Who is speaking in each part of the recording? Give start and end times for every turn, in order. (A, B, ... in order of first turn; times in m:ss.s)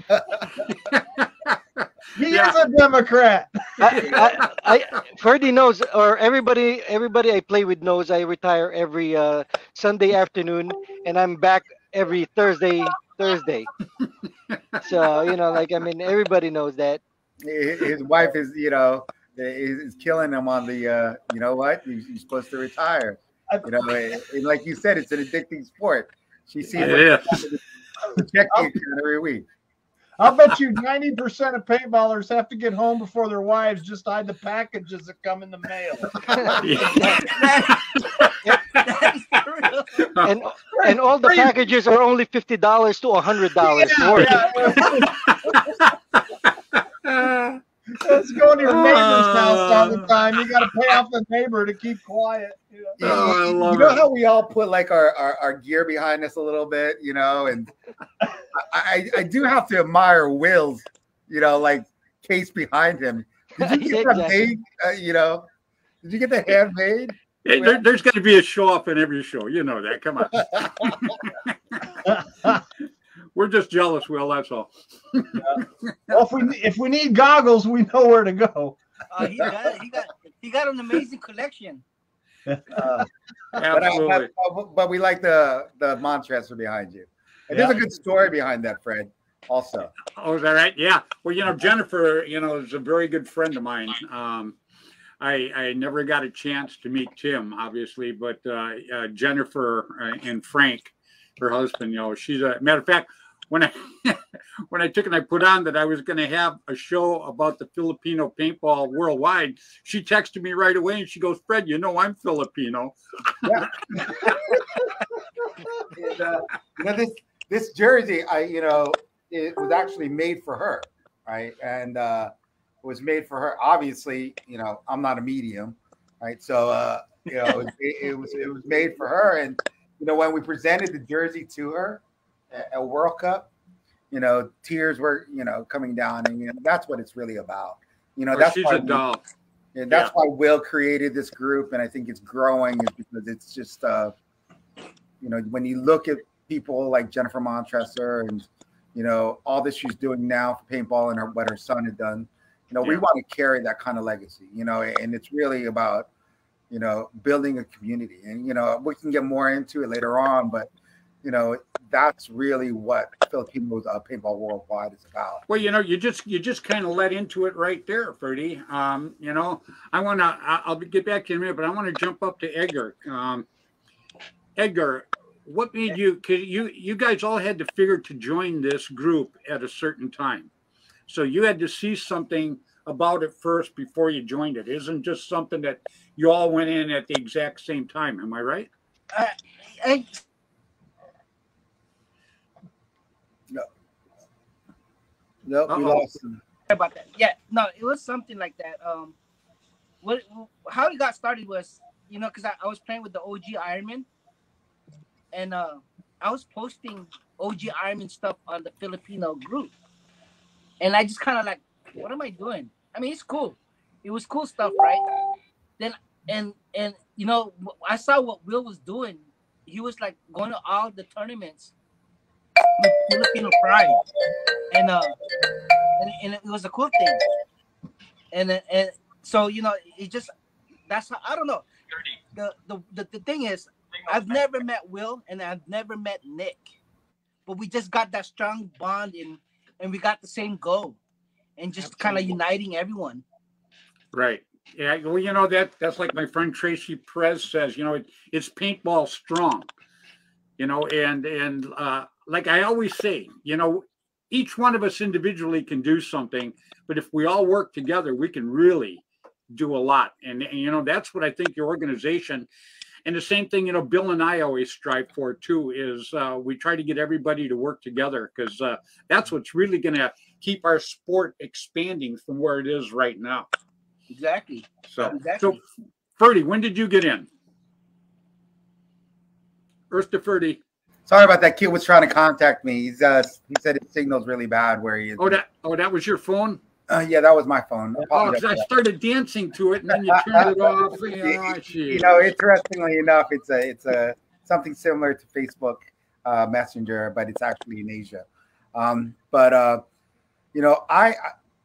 0:00.1-0:00.4 A
0:00.7-0:02.6 B
0:02.2-0:04.1 C
0:03.8-0:13.7 D
0:03.9-0:04.5 B
0:14.0-0:14.8 B
0:14.8-0:17.0 D
0:17.4-0:29.4 A
0:26.8-0:27.4 B
0:30.2-0:37.4 C
0:36.4-0:37.4 D
0:36.6-0:38.8 B
0:37.2-0:37.8 E
0:38.7-0:40.0 E
0:40.0-0:40.3 B
0:40.2-0:44.9 D
0:40.7-0:41.5 C
0:43.6-0:45.9 C
0:44.3-0:47.6 B
0:48.0-0:53.3 C
0:48.6-0:50.1 B
0:53.0-0:57.7 A
0:53.0-0:54.0 B
0:58.5-1:05.5 A
1:03.6-1:04.5 D
1:06.0-1:07.8 A
1:07.4-1:12.0 B
1:12.0-1:12.6 C
1:13.3-1:16.2 B
1:15.4-1:18.8 C
1:19.1-1:21.8 E
1:22.4-1:23.0 C
1:22.7-1:23.1 A
1:23.6-1:24.3 B
1:23.7-1:29.9 A
1:27.5-1:27.8 C
1:30.2-1:34.6 B
1:35.2-1:53.6 B
1:53.4-1:54.5 A
1:55.9-2:02.3 A
2:02.8-2:13.5 A
2:14.1-2:19.0 A
2:18.3-2:19.2 B
2:19.7-2:24.1 A
2:25.2-2:36.1 A
2:36.7-2:40.7 A
2:41.2-2:45.4 A
2:45.5-2:53.4 B
2:54.6-3:00.5 B
3:01.1-3:08.7 B
3:09.1-3:10.2 E
3:15.4-3:16.4 A
3:15.7-3:16.1 B
3:16.7-3:19.2 E
3:20.0-3:24.0 E
3:25.3-3:29.7 E
3:30.8-3:35.0 E
3:35.8-3:41.7 E
3:42.7-3:44.0 E
3:44.7-3:45.2 E
3:45.9-3:47.2 E
3:48.3-3:50.3 E
3:50.9-3:51.6 E
3:52.3-3:56.7 E
3:57.5-4:01.0 E
4:01.6-4:03.2 E
4:04.1-4:09.7 B
4:10.6-4:22.5 B
4:23.0-4:33.5 B
4:34.1-4:35.6 E
4:34.9-4:35.6 B
4:36.2-4:37.3 B
4:39.9-4:40.6 B
4:41.1-4:45.4 A
4:45.2-4:46.6 B
4:46.9-4:48.6 A
4:48.1-4:52.3 B
4:49.9-4:59.8 A
5:00.5-5:01.3 A